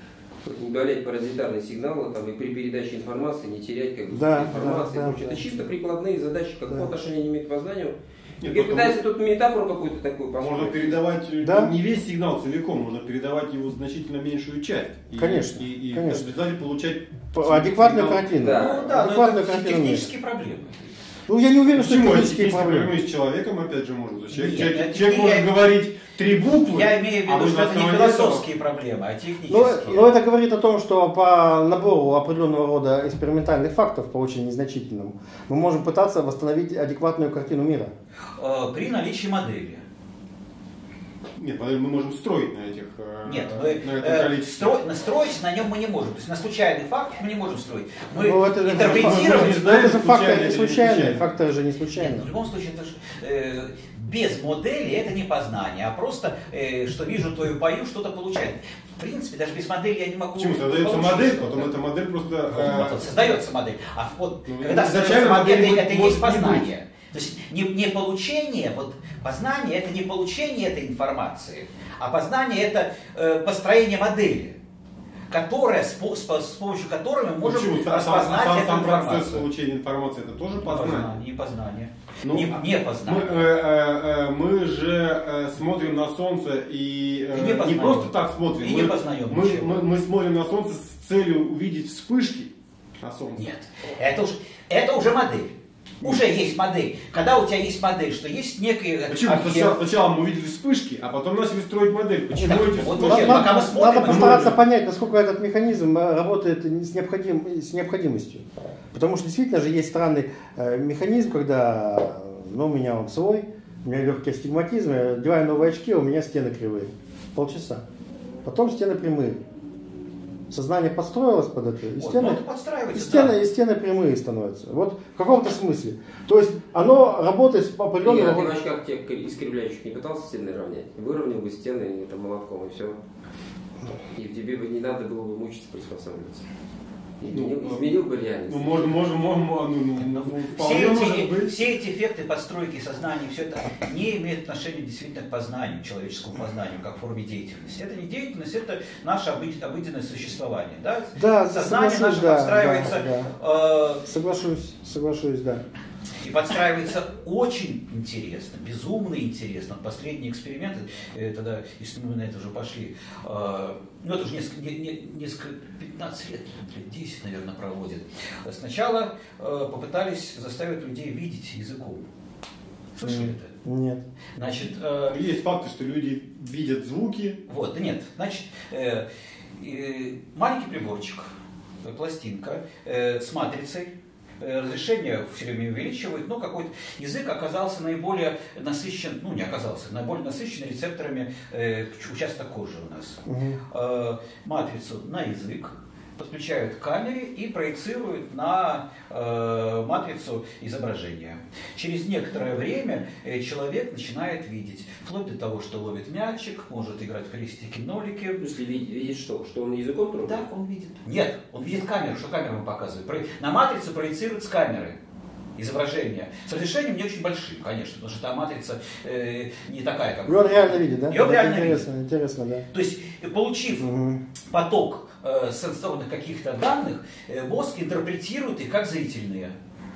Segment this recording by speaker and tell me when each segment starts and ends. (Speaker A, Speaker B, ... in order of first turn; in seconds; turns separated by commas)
Speaker A: 0.4-11.0, Speaker B: 4.1-5.5, Speaker C: 8.4-9.0, Speaker C: 10.4-18.4, Speaker B: 11.4-11.7, Speaker B: 15.2-16.2, Speaker B: 17.3-20.1, Speaker A: 18.4-18.8, Speaker D: 18.5-20.9, Speaker B: 21.3-22.9, Speaker C: 21.7-28.4, Speaker D: 24.3-25.5, Speaker D: 26.5-30.1, Speaker B: 29.5-37.9, Speaker D: 38.4-39.8, Speaker C: 41.4-44.8, Speaker D: 43.2-49.8, Speaker B: 48.1-52.3, Speaker C: 48.7-51.2, Speaker D: 51.9-61.7, Speaker C: 60.4-63.3, Speaker D: 62.5-74.6, Speaker C: 64.5-66.7, Speaker D: 75.3-79.4, Speaker C: 77.4-81.2, Speaker D: 80.6-83.5, Speaker C: 82.2-93.4, Speaker D: 87.3-89.8, Speaker D: 93.4-99.8, Speaker C: 99.1-104.6, Speaker D: 102.4-104.6, Speaker B: 102.4-117.8, Speaker B: 118.4-119.4, Speaker B: 120.5-122.4, Speaker D: 122.0-123.4, Speaker B: 122.9-128.5, Speaker A: 128.0-133.0, Speaker A: 134.2-136.4, Speaker A: 137.2-138.9, Speaker C: 137.3-137.9, Speaker C: 138.5-141.6, Speaker D: 140.6-154.0, Speaker B: 151.2-153.3, Speaker B: 154.0-155.6, Speaker D: 156.2-172.0, Speaker D: 172.9-173.5, Speaker B: 173.0-174.0, Speaker D: 174.4-175.2, Speaker C: 175.1-177.4, Speaker D: 177.5-179.1, Speaker D: 179.6-181.3, Speaker D: 181.8-208.4, Speaker B: 193.2-193.6, Speaker A: 208.4-210.4, Speaker D: 210.2-214.9, Speaker D: 215.6-221.9, Speaker B: 220.2-222.7, Speaker D: 222.7-223.9, Speaker B: 223.8-224.2, Speaker D: 224.5-229.5